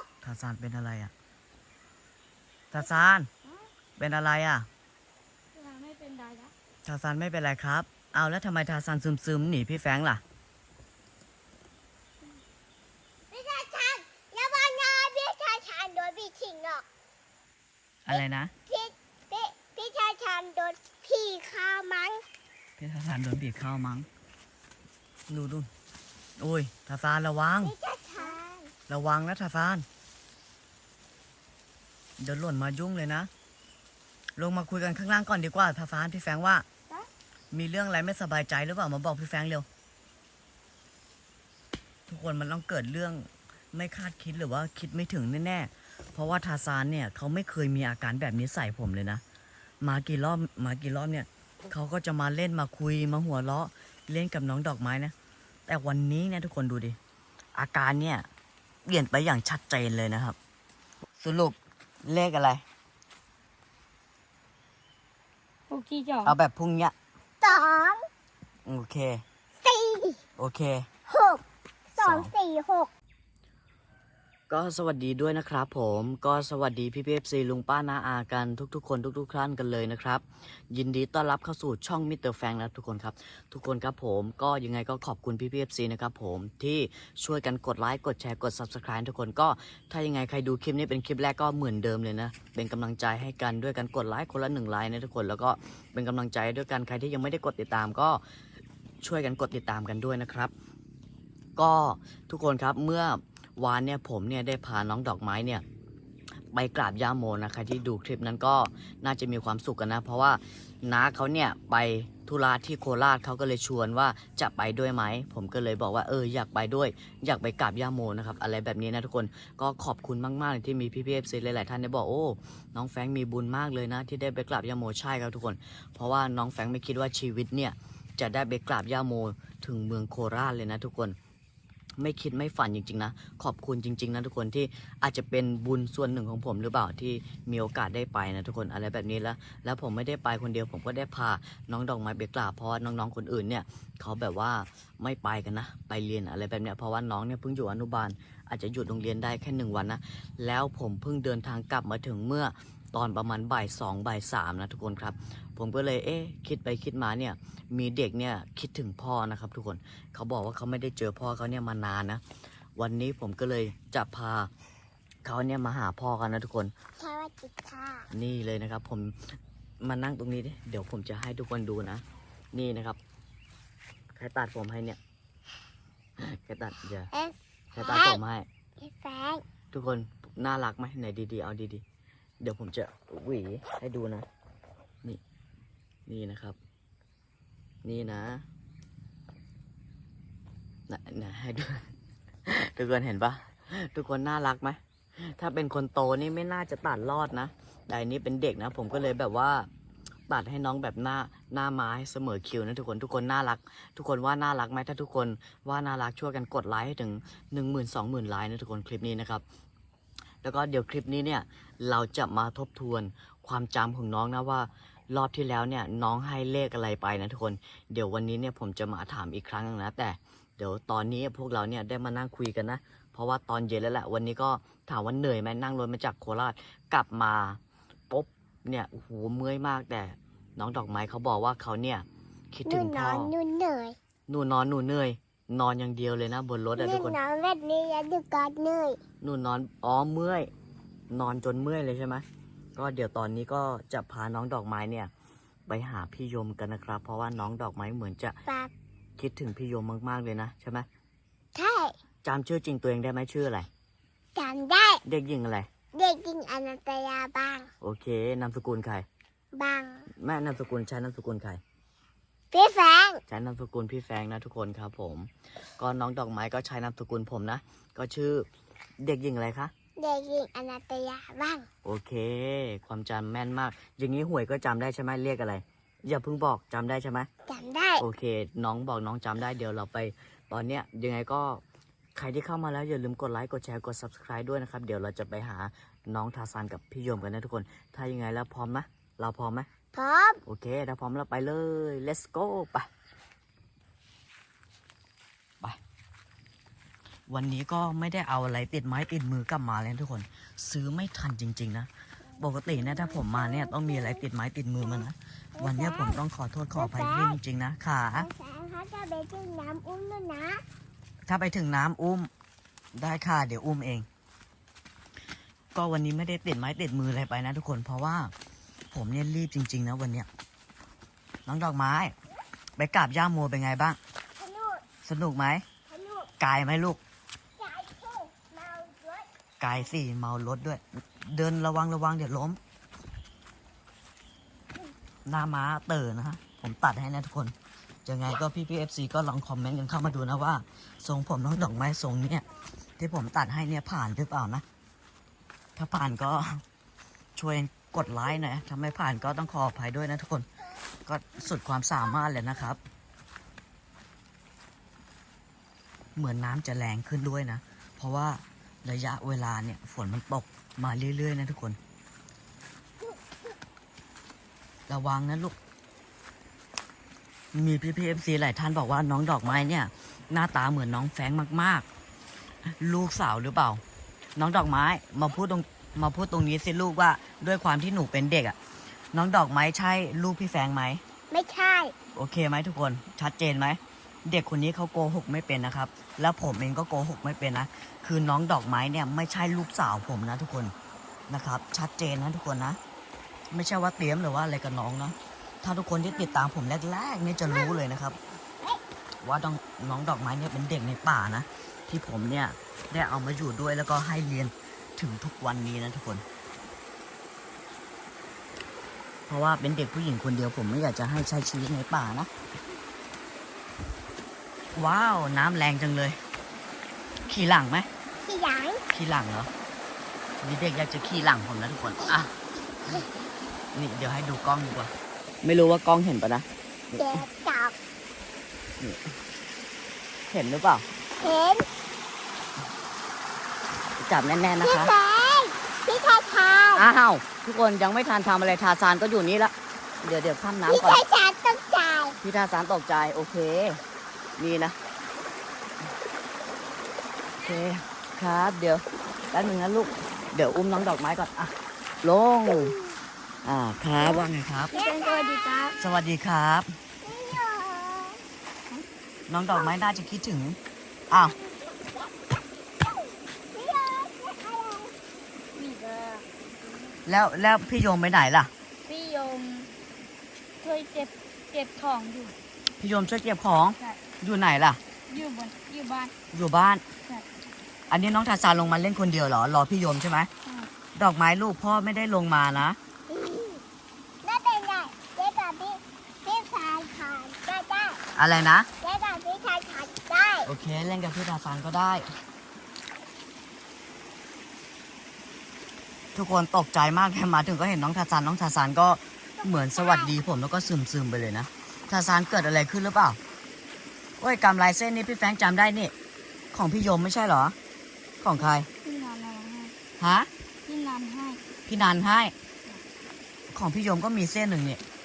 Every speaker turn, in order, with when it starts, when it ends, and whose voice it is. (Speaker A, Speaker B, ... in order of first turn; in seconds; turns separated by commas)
Speaker A: 0.2-1.1, Speaker A: 2.7-3.3, Speaker A: 4.0-4.7, Speaker B: 5.5-6.5, Speaker A: 6.8-10.2, Speaker C: 13.3-16.9, Speaker A: 18.1-18.5, Speaker C: 18.1-22.2, Speaker A: 22.8-24.1, Speaker A: 25.3-25.7, Speaker A: 26.4-27.7, Speaker C: 27.6-28.7, Speaker A: 28.9-29.9, Speaker A: 32.2-33.3, Speaker A: 34.4-36.6, Speaker A: 37.5-39.7, Speaker A: 42.1-49.2, Speaker A: 49.8-55.1, Speaker A: 55.7-57.0, Speaker A: 57.5-58.3, Speaker A: 58.9-60.4, Speaker A: 61.2-62.6, Speaker B: 65.7-66.3, Speaker A: 66.2-66.9, Speaker C: 67.4-68.1, Speaker A: 68.7-69.2, Speaker C: 69.6-70.2, Speaker A: 70.4-70.9, Speaker C: 71.1-72.9, Speaker A: 72.0-72.3, Speaker A: 74.5-98.2, Speaker A: 99.0-100.5, Speaker A: 101.6-105.6, Speaker A: 106.5-131.2, Speaker A: 132.0-162.2, Speaker A: 162.8-164.5, Speaker A: 165.2-166.7, Speaker C: 167.0-168.1, Speaker A: 168.1-173.0, Speaker A: 174.2-175.0, Speaker A: 176.2-177.1, Speaker C: 177.1-178.2, Speaker A: 177.7-178.5, Speaker C: 178.8-179.4, Speaker A: 179.7-181.8, Speaker A: 182.4-184.2, Speaker A: 186.1-186.6, Speaker A: 187.8-188.4, Speaker A: 190.9-191.9, Speaker A: 192.4-199.7, Speaker A: 200.3-209.4, Speaker A: 210.4-227.6, Speaker A: 228.1-233.3, Speaker C: 232.7-233.9, Speaker A: 234.3-237.2, Speaker C: 236.8-239.0, Speaker A: 239.2-240.5, Speaker A: 241.1-242.2, Speaker A: 242.8-245.1, Speaker A: 245.7-248.4, Speaker C: 248.5-248.7, Speaker A: 249.2-250.9, Speaker C: 251.5-251.9, Speaker A: 252.2-253.7, Speaker C: 254.3-255.0, Speaker A: 255.0-255.7, Speaker C: 255.9-257.7, Speaker A: 257.8-259.1, Speaker C: 259.5-260.1, Speaker A: 260.1-261.6, Speaker C: 262.5-263.2, Speaker A: 263.3-268.5, Speaker A: 269.0-269.7, Speaker C: 270.0-271.7, Speaker A: 271.8-277.3, Speaker C: 277.5-278.1, Speaker A: 278.0-281.6, Speaker A: 282.1-289.7, Speaker C: 289.9-290.4, Speaker A: 290.4-292.9, Speaker A: 297.3-308.3, Speaker C: 302.3-304.2, Speaker C: 305.6-306.2, Speaker C: 306.8-307.4, Speaker C: 308.1-310.6, Speaker A: 311.2-312.3, Speaker A: 312.9-314.1, Speaker A: 315.8-318.3, Speaker A: 318.9-320.3, Speaker A: 321.4-322.1, Speaker A: 322.8-324.0, Speaker C: 324.4-324.8, Speaker A: 325.0-325.6, Speaker C: 325.9-326.3, Speaker A: 326.4-327.0, Speaker C: 327.6-329.3, Speaker A: 329.6-332.6, Speaker A: 335.2-342.4, Speaker A: 343.0-344.6, Speaker A: 345.8-346.6, Speaker A: 347.4-350.5, Speaker C: 348.3-348.6, Speaker A: 351.1-352.8, Speaker C: 352.2-352.8, Speaker A: 356.1-361.8, Speaker C: 363.0-363.5, Speaker A: 364.9-365.6, Speaker A: 367.5-371.9, Speaker A: 372.6-373.8, Speaker A: 374.4-378.6, Speaker A: 379.1-381.0, Speaker C: 381.3-381.9, Speaker A: 382.1-390.7, Speaker A: 391.3-392.8, Speaker A: 393.5-398.2, Speaker C: 396.1-396.4, Speaker C: 397.5-397.8, Speaker A: 399.2-406.2, Speaker A: 409.3-412.3, Speaker A: 414.7-416.2, Speaker A: 417.3-417.9, Speaker C: 418.2-418.8, Speaker A: 418.9-419.5, Speaker A: 420.4-422.3, Speaker A: 423.7-426.4, Speaker C: 426.9-427.8, Speaker A: 430.3-430.9, Speaker C: 431.2-431.7, Speaker A: 434.0-434.9, Speaker C: 434.6-436.9, Speaker A: 436.8-441.0, Speaker C: 440.7-442.2, Speaker A: 442.2-443.8, Speaker A: 444.4-444.8, Speaker A: 447.4-452.8, Speaker C: 452.4-453.0, Speaker A: 453.4-454.7, Speaker C: 454.0-455.8, Speaker B: 454.7-455.8, Speaker A: 455.8-456.7, Speaker C: 457.0-458.2, Speaker A: 459.3-460.6, Speaker C: 461.1-464.9, Speaker B: 465.5-466.2, Speaker A: 467.1-468.5, Speaker B: 468.9-469.7, Speaker B: 470.6-472.3, Speaker A: 472.8-474.8, Speaker B: 475.1-476.1, Speaker A: 476.3-476.8, Speaker A: 477.9-480.3, Speaker A: 480.9-482.8, Speaker C: 483.1-483.6, Speaker C: 484.2-488.0, Speaker A: 488.1-488.7, Speaker C: 488.8-490.5, Speaker A: 490.4-492.1, Speaker A: 496.1-503.2, Speaker C: 499.3-500.2, Speaker A: 504.2-505.9, Speaker A: 506.5-507.6, Speaker A: 508.2-508.7, Speaker B: 508.8-509.7, Speaker A: 510.0-510.3, Speaker B: 510.6-511.4, Speaker A: 511.7-512.3, Speaker A: 513.5-514.8